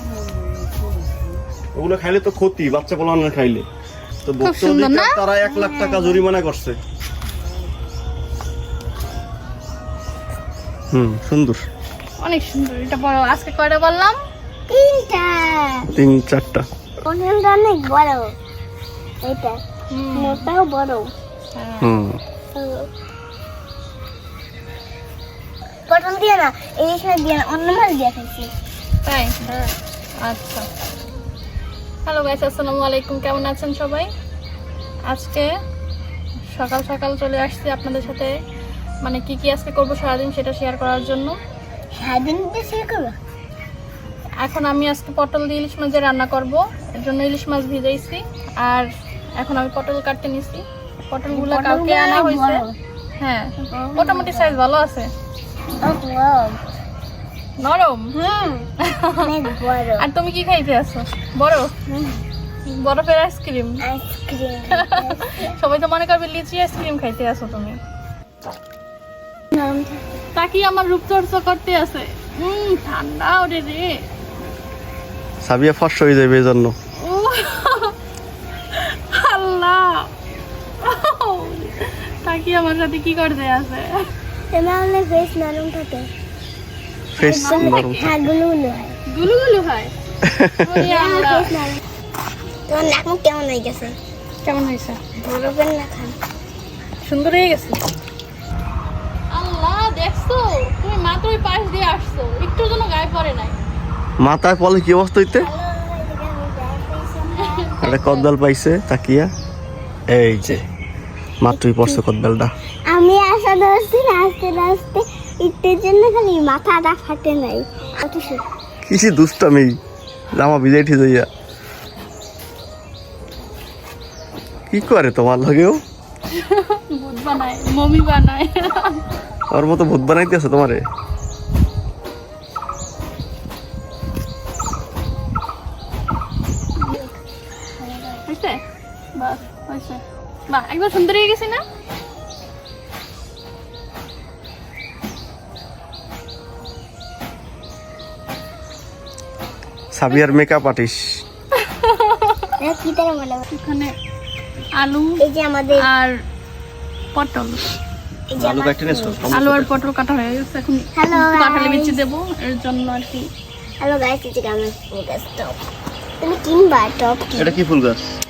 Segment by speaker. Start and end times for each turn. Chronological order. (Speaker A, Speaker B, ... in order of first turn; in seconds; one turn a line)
Speaker A: 1.8-3.7
Speaker A: 4.2-6.8
Speaker B: 4.4-5.2
Speaker C: 5.4-6.2
Speaker A: 10.9-11.7
Speaker B: 12.2-14.2
Speaker C: 14.7-15.9
Speaker A: 15.9-16.7
Speaker C: 17.0-18.3
Speaker C: 19.2-19.6
Speaker B: 19.9-20.5
Speaker C: 20.1-21.1
Speaker B: 21.6-21.9
Speaker A: 21.8-22.2
Speaker C: 22.5-22.9
Speaker C: 25.9-28.5
Speaker B: 29.1-29.4
Speaker B: 30.2-30.6
Speaker B: 32.1-34.1
Speaker B: 35.1-35.5
Speaker B: 36.5-38.3
Speaker B: 39.0-41.3
Speaker C: 42.0-43.2
Speaker B: 44.4-48.9
Speaker B: 49.4-52.6
Speaker C: 51.3-52.8
Speaker B: 53.2-55.1
Speaker C: 53.7-54.6
Speaker C: 55.8-56.6
Speaker B: 57.6-58.1
Speaker C: 58.1-58.7
Speaker B: 58.8-59.4
Speaker C: 59.2-60.0
Speaker B: 60.0-61.7
Speaker C: 61.9-62.2
Speaker B: 62.7-63.8
Speaker C: 63.9-65.5
Speaker B: 64.7-67.8
Speaker C: 69.5-70.2
Speaker B: 70.3-73.9
Speaker A: 75.4-76.8
Speaker B: 77.0-77.9
Speaker B: 78.7-80.1
Speaker B: 80.8-84.0
Speaker C: 84.5-86.1
Speaker B: 87.2-88.1
Speaker A: 87.2-88.1
Speaker C: 87.3-89.0
Speaker B: 89.1-89.9
Speaker A: 90.2-90.7
Speaker B: 90.6-91.5
Speaker C: 90.8-91.8
Speaker C: 92.7-94.0
Speaker B: 94.4-95.0
Speaker C: 95.2-96.2
Speaker B: 97.0-97.9
Speaker B: 99.3-103.6
Speaker A: 104.2-105.5
Speaker C: 105.4-108.0
Speaker B: 107.4-108.3
Speaker A: 107.8-109.3
Speaker A: 110.1-110.6
Speaker A: 111.4-112.5
Speaker C: 111.5-112.0
Speaker C: 112.9-118.4
Speaker A: 118.8-119.7
Speaker A: 120.3-121.3
Speaker A: 124.7-125.8
Speaker B: 126.3-129.0
Speaker A: 129.5-130.8
Speaker B: 136.8-137.1
Speaker C: 137.8-138.2
Speaker B: 138.3-138.6
Speaker B: 139.2-141.6
Speaker A: 149.9-151.2
Speaker B: 151.6-152.5
Speaker C: 152.6-153.4
Speaker B: 153.5-153.9
Speaker B: 154.8-155.2
Speaker C: 155.2-155.9
Speaker B: 155.8-156.1
Speaker B: 157.2-157.7
Speaker C: 158.3-159.2
Speaker A: 158.4-159.7
Speaker B: 159.3-163.3
Speaker C: 161.0-162.0
Speaker C: 163.8-165.6
Speaker C: 166.2-167.6
Speaker A: 167.4-168.1